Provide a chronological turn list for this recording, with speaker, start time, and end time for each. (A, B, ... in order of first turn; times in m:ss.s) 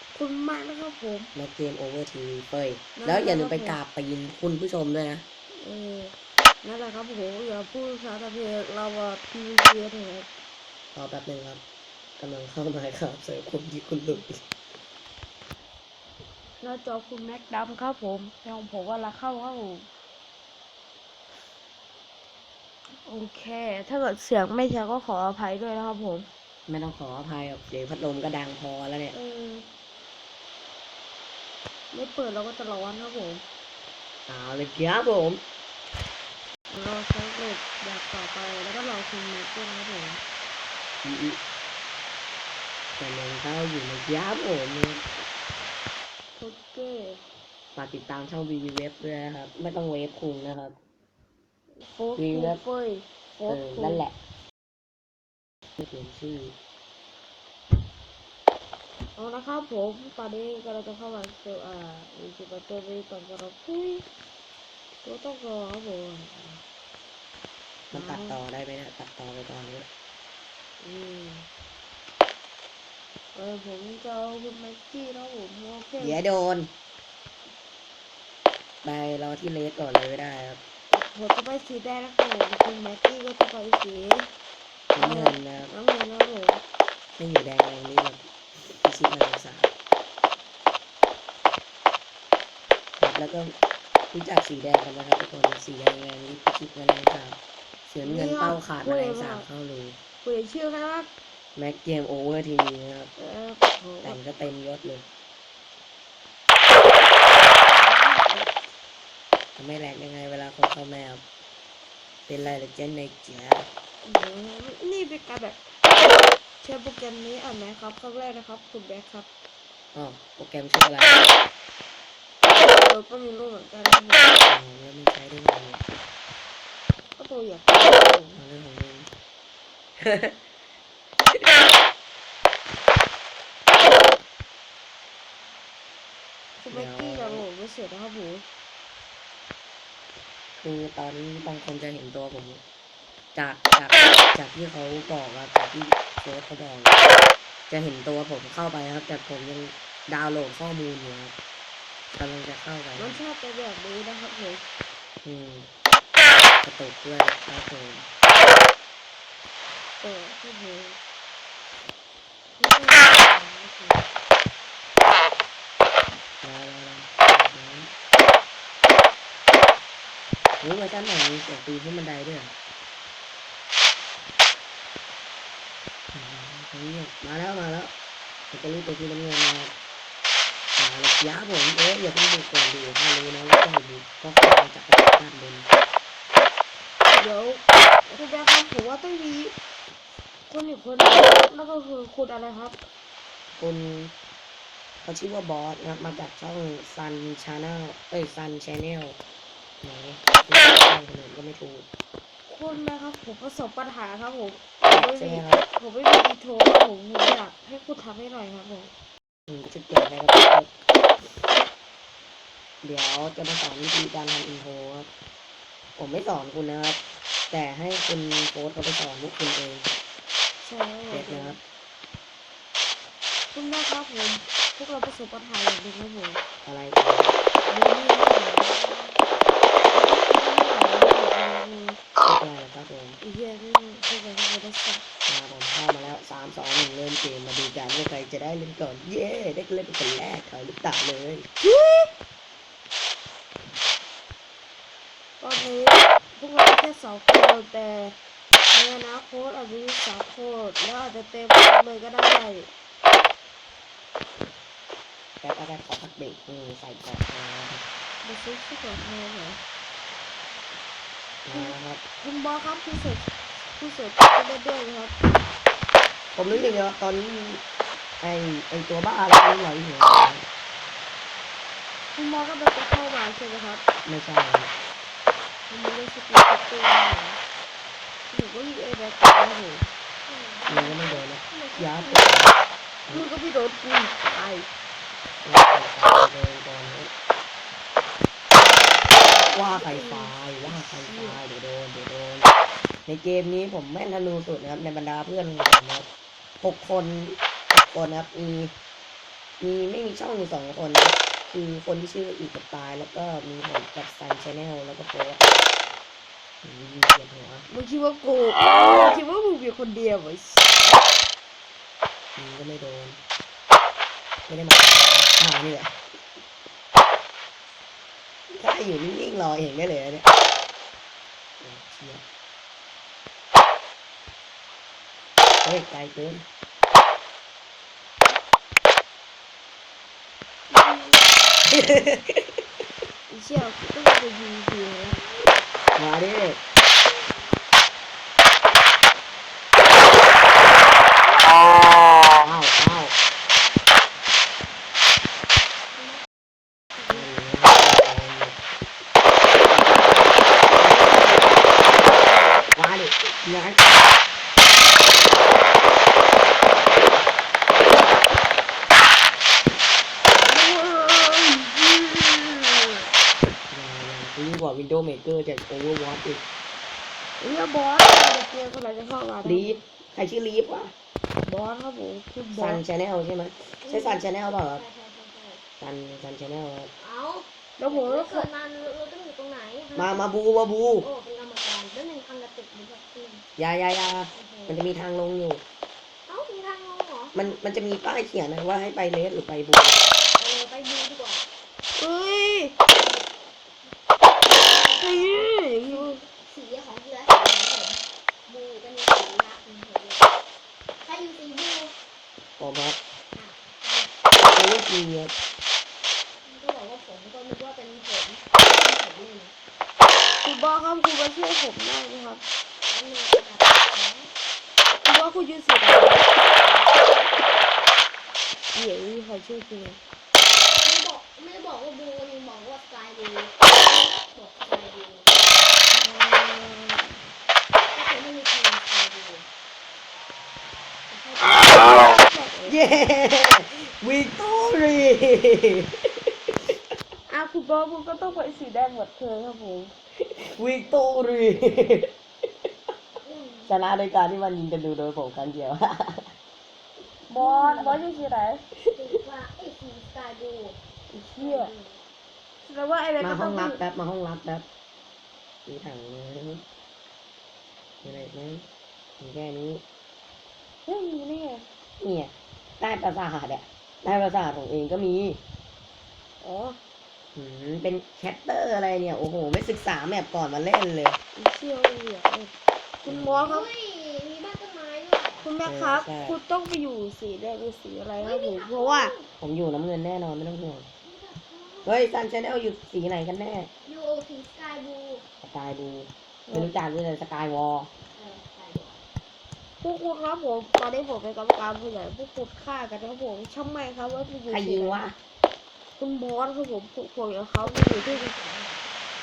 0:00.1-0:01.3 A
0:01.4-0:05.2 B
0:03.0-0:03.8 A
0:05.5-0:10.3 A
0:11.0-0:11.6 B
0:12.2-0:14.4 B
0:16.6-0:19.9 A
0:23.0-0:26.3 A
0:26.7-0:29.2 B
0:29.1-0:29.7 A
0:31.9-0:33.4 A
0:34.3-0:35.4 B
0:36.7-0:40.2 A
0:41.0-0:41.4 B
0:43.0-0:45.0 B
0:46.4-0:47.2 A
0:47.8-0:50.8 B
0:51.8-0:54.0 A
0:52.2-0:52.6 B
0:53.5-0:54.2 B
0:55.8-0:56.6 B
0:59.2-1:04.0 A
1:05.0-1:06.6 A
1:07.9-1:09.9 B
1:07.9-1:08.4 A
1:10.8-1:11.5 A
1:13.4-1:16.2 A
1:16.0-1:16.7 B
1:18.8-1:20.6 B
1:20.9-1:24.3 A
1:24.9-1:25.7 B
1:25.0-1:26.6 A
1:27.2-1:29.7 B
1:33.0-1:33.6 B
1:34.1-1:40.0 B
1:38.0-1:39.5 A
1:40.2-1:41.1 A
1:41.6-1:43.1 B
1:43.2-1:44.2 A
1:44.0-1:45.0 B
1:47.4-1:48.5 A
1:49.6-1:51.2 B
1:52.3-1:53.7 B
1:54.0-1:59.3 A
1:59.9-2:01.3 B
2:02.6-2:04.4 A
2:04.5-2:05.8 B
2:07.2-2:08.4 A
2:08.4-2:09.1 B
2:10.0-2:10.4 B
2:16.6-2:18.5 A
2:16.7-2:17.4 B
2:20.6-2:22.6 B
2:23.4-2:27.0 B
2:27.7-2:31.3 B
2:32.2-2:33.2 B
2:33.0-2:34.6 A
2:35.2-2:35.7 B
2:36.6-2:38.1 B
2:40.0-2:41.0 A
2:42.6-2:44.1 A
2:46.4-2:47.9 B
2:50.6-2:52.5 B
2:56.1-2:57.9 B
2:58.5-2:59.7 B
3:00.8-3:05.7 B
3:07.2-3:09.6 A
3:10.5-3:12.8 A
3:13.6-3:14.1 B
3:15.0-3:19.2 B
3:19.8-3:21.9 B
3:22.5-3:28.9 A
3:24.8-3:25.6 B
3:29.5-3:30.7 B
3:32.8-3:35.1 B
3:36.0-3:39.9 B
3:40.6-3:41.6 A
3:41.1-3:41.6 B
3:43.5-3:46.4 A
3:46.6-3:47.4 B
3:47.7-3:49.1 A
3:49.9-3:52.0 A
3:52.2-3:53.2 B
3:53.2-3:55.0 A
3:55.3-4:01.5 B
4:01.6-4:02.1 A
4:05.4-4:08.2 A
4:08.7-4:12.7 A
4:15.4-4:17.8 B
4:18.2-4:19.6 A
4:21.5-4:22.0 B
4:21.5-4:25.4 A
4:26.4-4:27.6 B
4:28.2-4:30.4 B
4:32.1-4:33.8 A
4:34.0-4:34.7 B
4:35.7-4:37.4 A
4:38.3-4:39.8 A
4:40.2-4:42.5 C
4:40.7-4:42.5 B
4:43.1-4:44.7 A
4:45.4-4:47.1 B
4:49.3-4:52.5 B
4:49.7-4:51.4 A
4:53.1-4:56.1 B
4:56.6-4:58.7 B
4:59.6-5:05.6 B
5:06.6-5:07.7 B
5:07.7-5:11.0 A
5:12.4-5:13.2 B
5:14.5-5:16.0 B
5:18.5-5:20.3 B
5:21.6-5:22.2 B
5:25.6-5:26.4 B
5:30.7-5:31.5 C
5:31.7-5:32.4 B
5:33.3-5:35.2 A
5:36.0-5:36.6 B
5:42.2-5:43.2 B
5:47.0-5:48.6 B
5:50.8-5:51.4 B
5:52.2-5:52.6 C
5:52.8-5:54.0 B
6:00.4-6:02.7 A
6:03.7-6:06.4 B
6:07.4-6:09.8 A
6:09.4-6:10.9 B
6:11.5-6:12.8 A
6:12.6-6:14.8 B
6:13.8-6:15.6 C
6:15.8-6:16.9 B
6:17.0-6:20.3 C
6:17.8-6:18.5 A
6:19.9-6:21.1 B
6:21.0-6:23.4 C
6:23.6-6:25.6 B
6:24.3-6:24.9 C
6:26.3-6:27.4 C
6:27.3-6:30.0 B
6:30.4-6:31.4 C
6:32.0-6:32.8 A
6:33.0-6:33.3 C
6:34.4-6:40.3 C
6:35.0-6:36.2 A
6:41.0-6:41.9 C
6:42.6-6:43.0 B
6:43.3-6:44.1 C
6:44.5-6:45.3 B
6:46.4-6:49.5 C
6:50.4-6:52.4 A
6:52.8-6:54.3 C
6:55.0-6:56.3 A
6:56.4-6:57.5 C
6:58.7-7:00.0 A
7:00.7-7:05.4 C
7:05.9-7:07.2 A
7:07.9-7:09.5 C
7:11.1-7:12.1 C
7:11.8-7:12.8 A
7:12.7-7:16.0 B
7:17.3-7:19.9 A
7:20.2-7:22.1 B
7:23.2-7:23.7 C
7:23.7-7:26.4 B
7:27.3-7:28.6 A
7:27.4-7:28.3 C
7:28.9-7:30.8 C
7:31.1-7:31.7 A
7:31.4-7:32.0 C
7:32.6-7:33.8 A
7:33.2-7:34.6 B
7:35.7-7:36.6 B
7:38.0-7:38.6 B
7:39.2-7:39.8 B
7:40.9-7:41.6 A
7:42.0-7:45.4 B
7:46.4-7:46.8 A
7:47.4-7:51.2 B
7:51.4-7:52.5 A
7:53.0-7:53.7 A
7:53.1-7:53.5 B
7:53.4-7:55.5 C
7:55.4-7:59.1 A
7:55.6-7:56.4 B
7:58.2-7:59.3 C
7:59.4-8:00.9 B
8:01.0-8:02.0 C
8:01.8-8:03.7 B
8:03.8-8:05.2 C
8:05.4-8:07.9 B
8:06.5-8:06.7 A
8:08.1-8:09.0 C
8:09.8-8:15.0 A
8:14.5-8:15.2 B
8:16.0-8:18.3 A
8:17.6-8:18.8 C